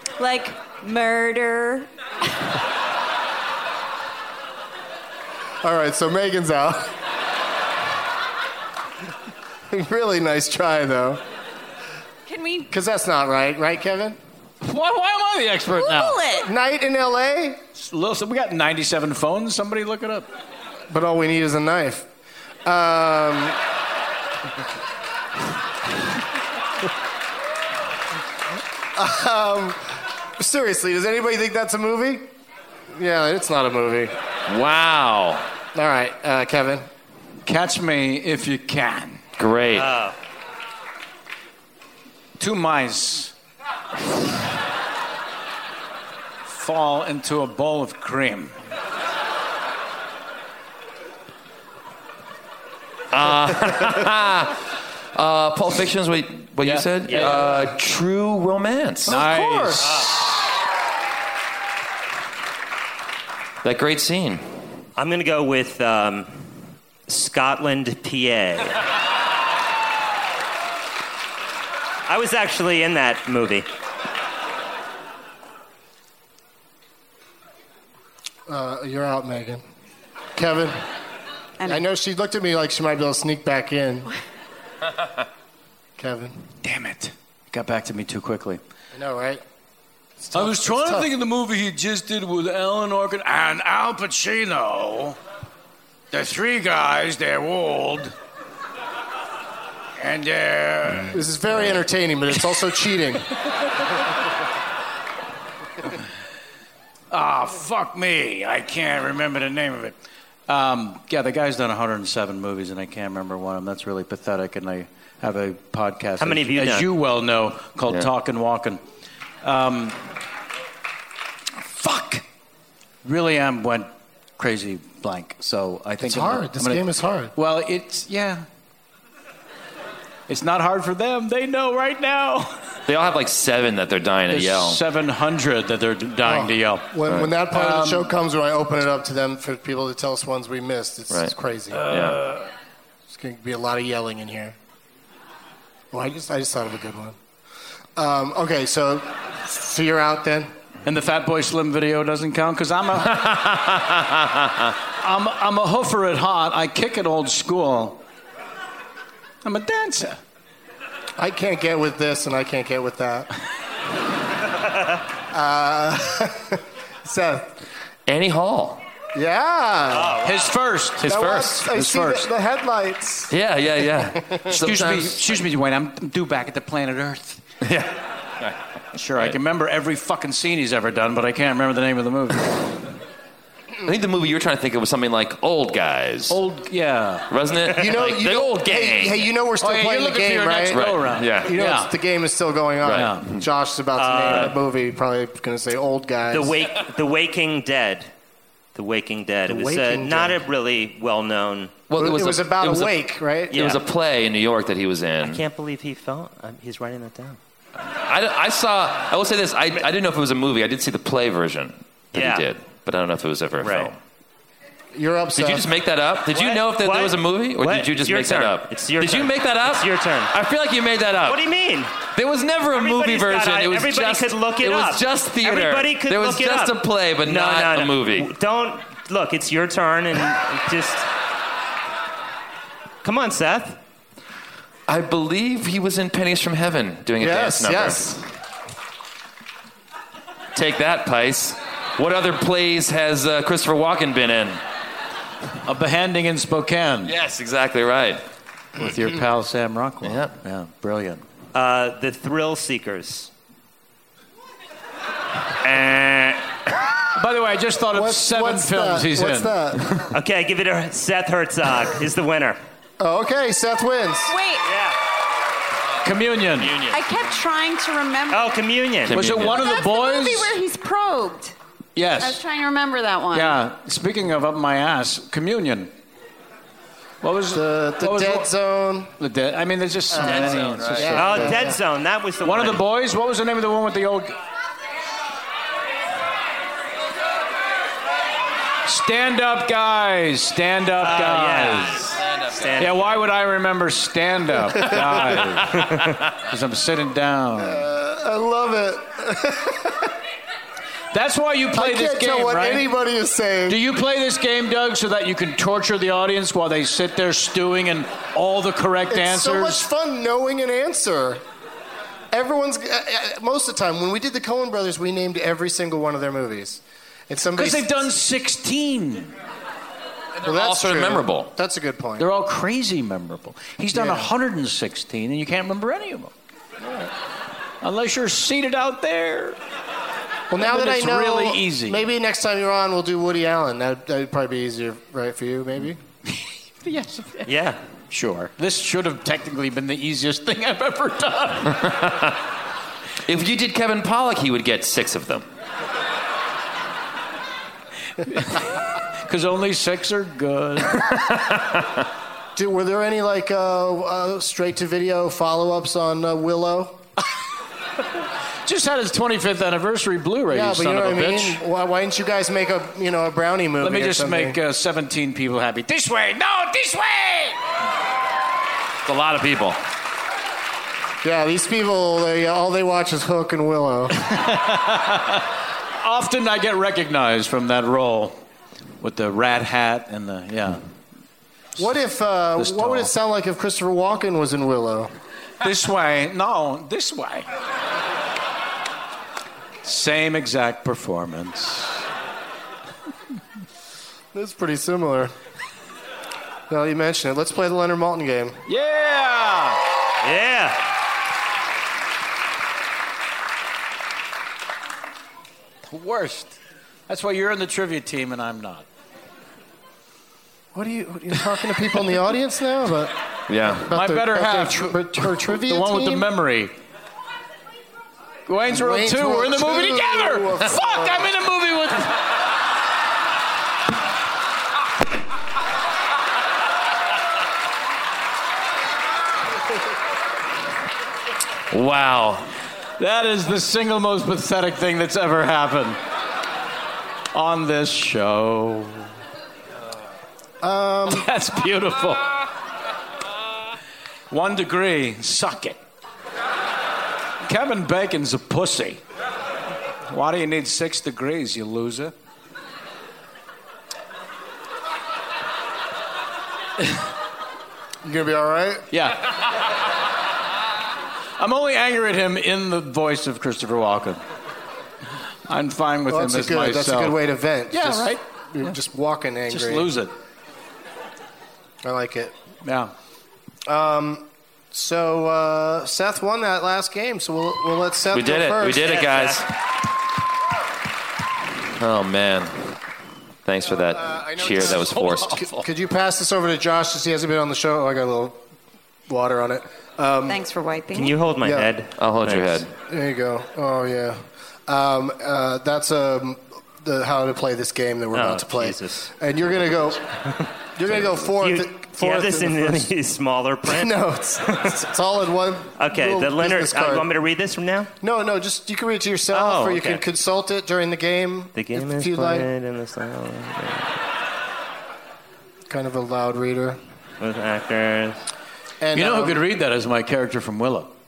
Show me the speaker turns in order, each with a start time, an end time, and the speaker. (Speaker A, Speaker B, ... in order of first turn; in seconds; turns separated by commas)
Speaker A: 0.2-1.9, Speaker B: 5.6-6.9, Speaker B: 9.7-11.2, Speaker A: 12.2-12.7, Speaker B: 12.7-14.2, Speaker C: 14.6-16.2, Speaker A: 15.7-16.5, Speaker B: 16.4-17.6, Speaker C: 17.7-20.3, Speaker B: 20.9-22.1, Speaker B: 22.6-23.6, Speaker B: 28.9-32.3, Speaker B: 32.9-34.1, Speaker D: 34.5-35.5, Speaker B: 35.7-36.9, Speaker C: 37.4-39.2, Speaker D: 39.4-40.0, Speaker E: 39.7-40.1, Speaker C: 42.4-43.3, Speaker C: 46.5-48.5, Speaker D: 53.1-59.1, Speaker C: 56.6-57.6, Speaker E: 57.1-57.4, Speaker B: 59.1-59.9, Speaker C: 59.1-60.4, Speaker E: 59.8-60.1, Speaker D: 63.6-64.4, Speaker E: 65.0-66.5, Speaker E: 67.1-68.8, Speaker E: 72.1-73.7, Speaker B: 78.5-79.6, Speaker B: 80.3-80.8, Speaker B: 81.6-84.1, Speaker B: 86.0-86.4, Speaker C: 86.6-88.6, Speaker B: 88.9-89.4, Speaker B: 90.2-91.1, Speaker C: 90.3-95.2, Speaker C: 96.1-98.1, Speaker C: 100.0-101.2, Speaker B: 101.1-103.3, Speaker C: 107.1-110.0, Speaker C: 110.5-118.8, Speaker E: 116.2-116.9, Speaker C: 119.4-120.0, Speaker C: 121.6-122.2, Speaker C: 123.0-126.8, Speaker B: 126.0-127.3, Speaker C: 127.3-128.4, Speaker C: 130.3-132.6, Speaker D: 132.9-134.8, Speaker C: 134.3-136.9, Speaker B: 136.2-141.8, Speaker D: 137.1-137.3, Speaker C: 137.5-138.1, Speaker D: 141.1-141.3, Speaker C: 141.8-142.5, Speaker D: 141.9-142.2, Speaker B: 143.1-144.6, Speaker B: 145.9-147.2, Speaker B: 148.0-150.5, Speaker C: 150.8-153.4, Speaker D: 153.2-153.8, Speaker C: 155.0-158.0, Speaker C: 159.4-160.2, Speaker B: 161.2-163.3, Speaker B: 165.3-167.5, Speaker D: 168.1-168.8, Speaker B: 169.1-170.2, Speaker E: 169.9-170.6, Speaker C: 170.2-172.3, Speaker D: 171.0-171.6, Speaker B: 171.0-173.3, Speaker D: 173.3-175.4, Speaker C: 174.5-177.4, Speaker D: 177.6-178.6, Speaker C: 178.9-182.7, Speaker D: 183.8-186.4, Speaker C: 186.3-187.3, Speaker D: 187.3-189.3, Speaker B: 187.7-196.5, Speaker C: 189.6-191.9, Speaker D: 190.7-191.5, Speaker D: 192.8-193.4, Speaker C: 192.9-193.2, Speaker E: 193.9-194.5, Speaker E: 196.3-198.1, Speaker E: 198.7-201.8, Speaker B: 199.5-200.4, Speaker D: 201.9-203.0, Speaker B: 202.0-203.6, Speaker E: 203.5-203.8, Speaker D: 203.5-205.4, Speaker E: 205.2-207.4, Speaker D: 208.0-213.9, Speaker E: 212.1-212.4, Speaker E: 213.6-213.9, Speaker B: 214.9-215.7, Speaker D: 215.3-221.5, Speaker E: 216.3-220.3, Speaker E: 221.2-222.0, Speaker D: 222.1-228.3, Speaker E: 222.7-231.1, Speaker E: 233.0-233.8, Speaker D: 234.9-238.0, Speaker B: 237.2-238.3, Speaker D: 240.5-244.6, Speaker C: 245.7-247.1, Speaker D: 247.0-248.2, Speaker C: 248.8-251.2, Speaker D: 250.0-250.3, Speaker E: 251.5-253.3, Speaker D: 255.6-256.4, Speaker C: 257.1-259.5, Speaker B: 257.9-259.9, Speaker E: 260.1-262.6, Speaker B: 263.0-264.4, Speaker A: 264.2-264.6, Speaker E: 264.6-265.0, Speaker C: 266.0-266.8, Speaker D: 266.0-267.0, Speaker A: 266.8-268.6, Speaker E: 268.3-269.3, Speaker D: 269.0-269.7, Speaker C: 269.1-270.5, Speaker A: 269.5-271.6, Speaker C: 271.9-272.4, Speaker A: 272.2-273.6, Speaker C: 273.3-275.9, Speaker C: 277.2-278.5, Speaker B: 277.5-279.1, Speaker C: 279.2-281.7, Speaker B: 280.1-281.8, Speaker D: 280.2-281.4, Speaker E: 281.1-282.8, Speaker C: 282.4-284.4, Speaker C: 288.8-292.0, Speaker E: 291.0-293.0, Speaker D: 291.9-292.9, Speaker C: 292.8-295.8, Speaker B: 294.8-295.2, Speaker E: 295.8-296.1, Speaker C: 296.5-297.8, Speaker B: 297.6-300.1, Speaker C: 301.1-302.9, Speaker B: 301.8-303.8, Speaker C: 303.7-309.8, Speaker B: 309.1-311.4, Speaker B: 312.3-317.9, Speaker C: 317.6-319.3, Speaker D: 320.4-321.5, Speaker B: 320.4-322.3, Speaker C: 322.2-326.3, Speaker B: 323.9-324.3, Speaker B: 326.8-327.1, Speaker C: 327.8-329.6, Speaker B: 330.5-336.0, Speaker C: 330.6-332.0, Speaker C: 336.8-337.5, Speaker E: 337.4-337.8, Speaker C: 338.1-341.9, Speaker D: 341.9-342.3, Speaker D: 343.2-345.5, Speaker C: 348.2-348.7, Speaker C: 349.2-351.1, Speaker D: 351.5-351.8, Speaker B: 352.6-357.0, Speaker C: 358.6-361.6, Speaker B: 360.5-364.6, Speaker C: 363.8-367.6, Speaker D: 369.0-369.8, Speaker B: 371.2-374.2, Speaker C: 374.3-375.4, Speaker C: 376.0-378.4, Speaker C: 379.0-380.8, Speaker B: 381.8-385.1, Speaker C: 382.6-383.1, Speaker C: 385.6-387.5, Speaker C: 389.8-392.0, Speaker B: 394.3-395.3, Speaker B: 396.7-398.6, Speaker C: 398.7-399.8, Speaker E: 400.2-400.8, Speaker C: 405.9-406.6, Speaker C: 407.1-408.9, Speaker B: 410.7-413.1, Speaker D: 413.5-413.9, Speaker B: 413.8-416.2, Speaker C: 413.9-416.7, Speaker C: 418.4-422.2, Speaker B: 418.7-421.3, Speaker D: 431.7-432.5, Speaker C: 433.0-436.0, Speaker C: 437.3-439.1, Speaker B: 440.6-441.3, Speaker C: 441.1-442.2, Speaker C: 444.3-445.8, Speaker C: 447.4-449.0, Speaker C: 450.1-452.1, Speaker B: 458.0-458.9, Speaker C: 458.9-459.3, Speaker C: 461.4-464.2, Speaker C: 465.5-467.2, Speaker B: 466.1-469.9, Speaker C: 467.7-468.8, Speaker C: 469.5-470.1, Speaker B: 471.8-472.3, Speaker C: 472.6-472.9, Speaker B: 473.7-479.1, Speaker D: 478.1-479.5, Speaker E: 478.8-479.4, Speaker D: 481.8-482.7, Speaker D: 483.4-485.4, Speaker B: 483.6-488.4, Speaker C: 484.6-485.6, Speaker B: 489.1-490.4, Speaker A: 490.3-491.2, Speaker E: 490.9-492.6, Speaker B: 491.4-491.7, Speaker D: 491.9-492.7, Speaker B: 492.8-500.1, Speaker E: 498.1-499.1, Speaker B: 500.8-502.9, Speaker E: 501.3-504.0, Speaker B: 503.6-507.1, Speaker E: 504.5-504.7, Speaker E: 505.8-507.9, Speaker B: 508.0-512.5, Speaker E: 509.3-510.0, Speaker E: 511.5-513.9, Speaker B: 515.7-516.8, Speaker E: 517.2-518.2, Speaker B: 518.8-519.4, Speaker C: 518.9-520.9